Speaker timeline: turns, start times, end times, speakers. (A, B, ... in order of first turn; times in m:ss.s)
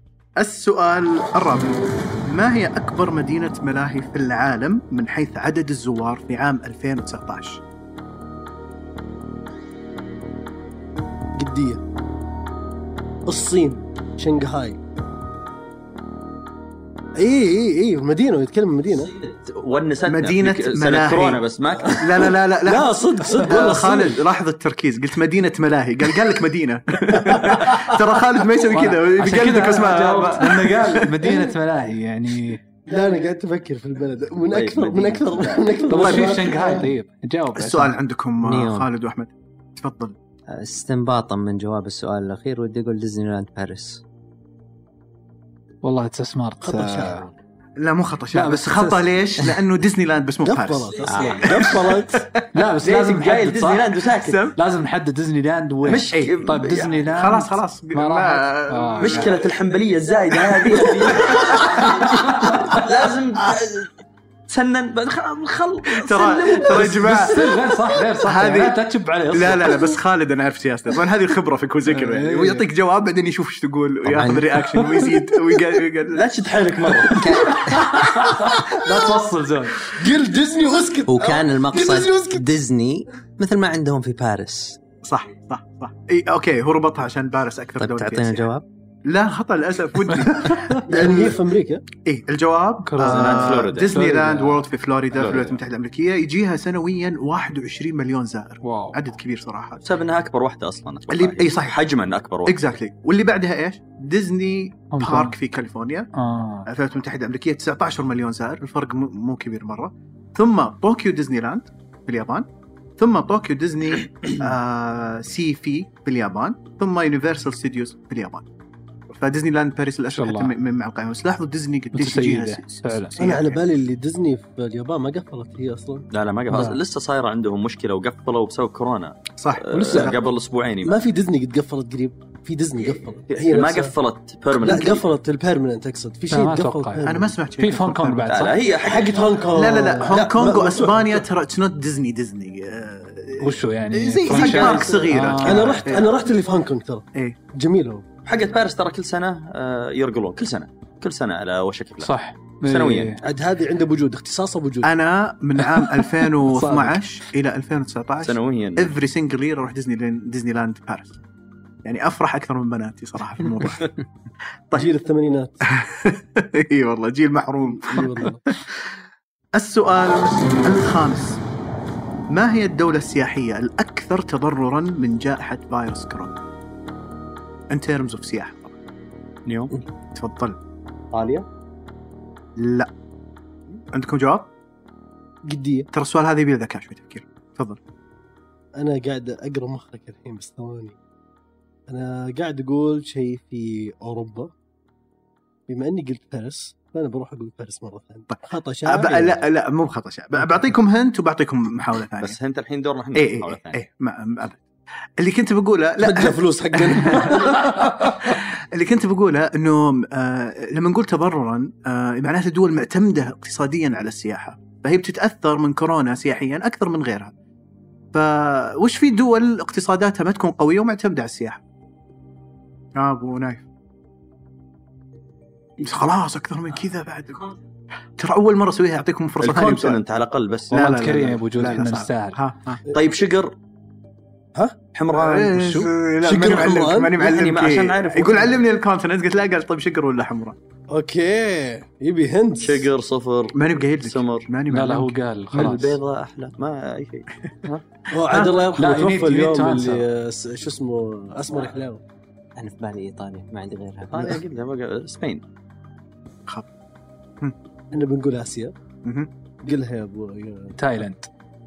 0:00.4-0:07.6 A
0:11.4-0:11.8 B
0:13.3-0:14.8 B
0:17.2-0:19.1 B
0:19.1-0:22.1 C
0:20.1-0:31.2 A
0:22.6-0:24.2 B
0:27.2-0:27.7 B
0:28.7-0:32.6 D
0:32.9-0:36.9 B
0:34.5-0:35.8 C
0:35.9-0:37.9 D
0:36.0-0:36.3 A
0:37.6-0:40.2 A
0:38.4-0:38.9 E
0:40.5-0:44.0 E
0:45.8-0:47.2 D
0:46.6-0:47.4 B
0:47.8-0:52.5 A
0:48.3-0:49.1 D
0:50.4-0:52.3 B
0:51.1-0:51.6 C
0:52.5-0:53.9 D
0:52.8-0:54.4 C
0:54.2-0:54.6 A
0:54.6-0:59.4 D
0:55.8-0:57.0 C
0:57.1-0:59.4 A
0:59.0-1:03.9 C
1:00.6-1:02.4 A
1:01.8-1:02.8 D
1:04.5-1:07.3 C
1:05.9-1:07.5 A
1:06.7-1:09.9 D
1:08.2-1:08.8 A
1:09.3-1:16.3 A
1:11.9-1:12.6 D
1:14.0-1:14.6 E
1:16.1-1:17.5 C
1:17.1-1:17.9 E
1:17.6-1:19.9 D
1:19.9-1:22.5 B
1:21.1-1:24.8 E
1:25.0-1:28.5 A
1:27.8-1:28.6 E
1:29.1-1:31.4 A
1:30.1-1:30.8 D
1:30.9-1:31.8 B
1:32.0-1:39.8 A
1:32.9-1:34.7 D
1:33.0-1:33.9 C
1:35.2-1:35.6 C
1:38.6-1:39.0 D
1:39.8-1:42.6 C
1:41.1-1:41.8 A
1:42.5-1:46.1 A
1:44.9-1:45.4 D
1:46.2-1:46.7 D
1:46.7-1:58.5 A
1:59.1-2:03.6 A
2:00.1-2:00.5 D
2:01.9-2:03.1 D
2:03.2-2:06.1 B
2:06.1-2:11.0 C
2:09.4-2:10.2 A
2:09.7-2:10.2 B
2:10.8-2:13.9 B
2:12.9-2:15.0 C
2:14.6-2:17.3 B
2:16.3-2:17.1 D
2:17.0-2:18.5 A
2:17.6-2:18.6 D
2:18.3-2:19.5 C
2:18.8-2:21.2 B
2:19.5-2:26.1 A
2:23.4-2:25.9 D
2:24.3-2:24.7 C
2:24.3-2:28.1 B
2:28.3-2:33.2 C
2:32.0-2:33.2 D
2:33.2-2:34.9 B
2:34.8-2:41.2 A
2:35.7-2:37.0 D
2:38.2-2:38.9 C
2:41.8-2:43.9 A
2:44.7-2:45.6 B
2:45.7-2:48.3 A
2:47.8-2:48.4 B
2:49.6-2:51.4 A
2:52.3-2:56.4 A
2:57.7-2:58.8 A
2:59.5-2:59.7 C
3:00.2-3:00.6 A
3:01.2-3:01.4 B
3:02.6-3:02.9 A
3:03.9-3:04.5 A
3:05.5-3:05.9 B
3:05.9-3:07.8 A
3:08.8-3:11.0 B
3:11.9-3:14.5 B
3:15.7-3:19.4 B
3:18.3-3:22.4 A
3:22.2-3:23.8 C
3:23.2-3:24.6 A
3:25.2-3:37.3 A
3:26.0-3:28.3 B
3:38.1-3:41.6 A
3:43.0-3:43.7 A
3:45.8-3:47.4 A
3:48.2-3:50.0 A
3:49.4-3:50.9 C
3:50.7-3:52.4 D
3:50.7-3:52.8 A
3:52.9-3:53.5 C
3:54.9-3:55.7 C
3:55.1-4:00.6 A
3:55.6-3:55.9 D
3:56.2-3:57.2 B
3:57.2-3:58.6 C
4:00.9-4:02.9 B
4:02.6-4:04.5 C
4:03.5-4:05.1 A
4:04.7-4:06.0 D
4:05.5-4:07.8 C
4:08.1-4:12.0 B
4:08.3-4:08.6 A
4:08.7-4:10.0 D
4:12.6-4:14.4 E
4:14.1-4:15.4 C
4:17.9-4:18.7 B
4:19.0-4:19.3 A
4:19.6-4:20.8 B
4:20.8-4:21.3 D